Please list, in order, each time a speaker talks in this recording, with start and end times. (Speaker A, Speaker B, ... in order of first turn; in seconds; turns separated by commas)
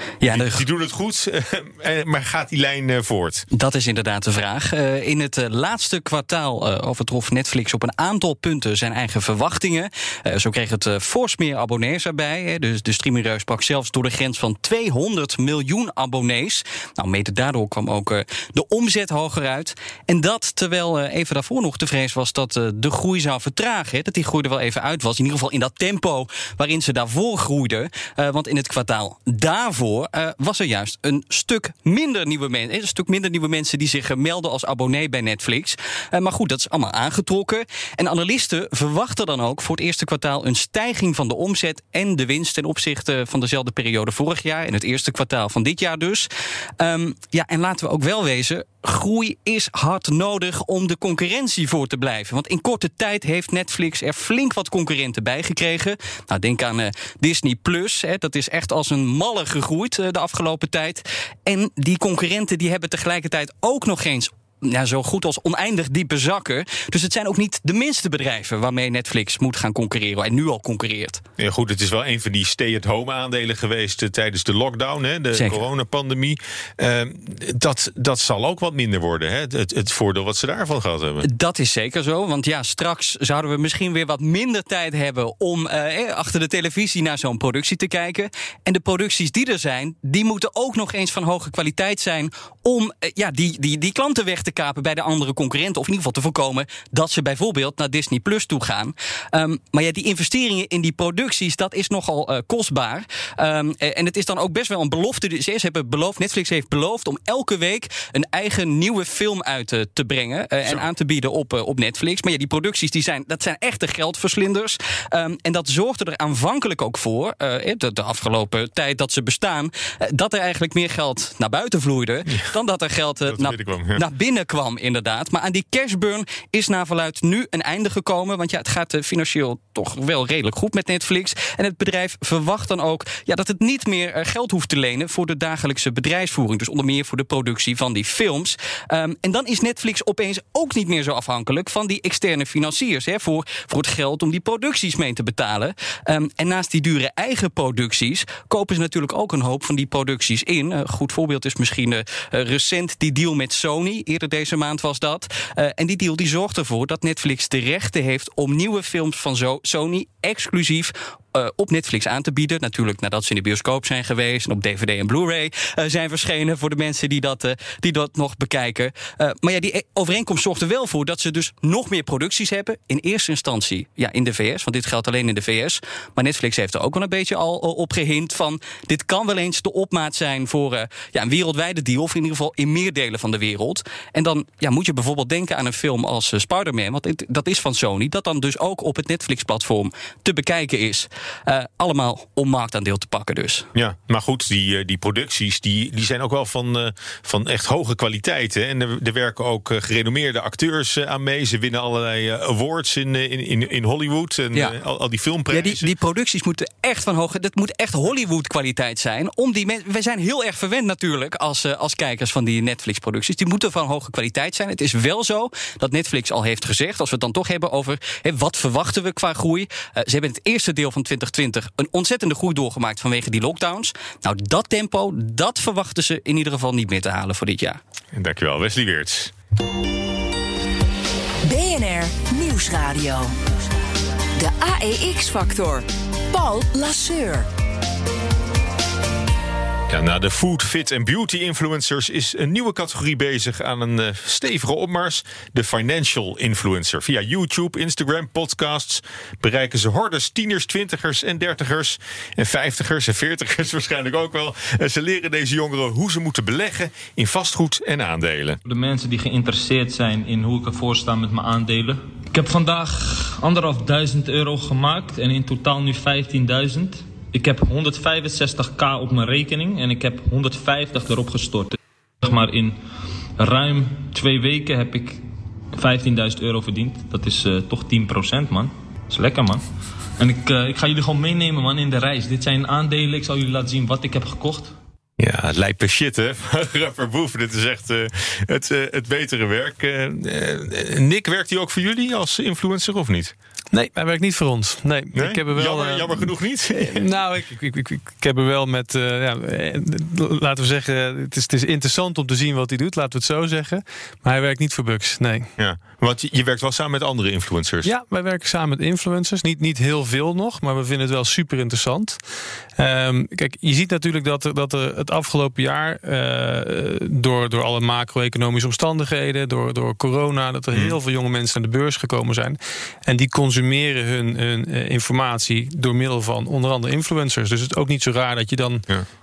Speaker A: 0.2-0.6, Speaker B: 0.3-3.5, Speaker A: 3.5-71.2, Speaker B: 71.4-81.3, Speaker A: 75.3-75.6, Speaker A: 81.2-193.7, Speaker B: 123.3-124.0, Speaker B: 193.8-205.9, Speaker A: 205.5-227.8, Speaker B: 228.1-229.3, Speaker C: 231.4-233.3, Speaker C: 234.4-237.5, Speaker B: 239.9-258.6, Speaker D: 258.6-272.8, Speaker D: 273.4-279.6, Speaker D: 280.2-284.7, Speaker B: 285.2-293.3, Speaker E: 293.7-305.5, Speaker B: 295.1-297.1, Speaker B: 305.6-307.9, Speaker E: 307.8-312.2, Speaker E: 312.8-328.9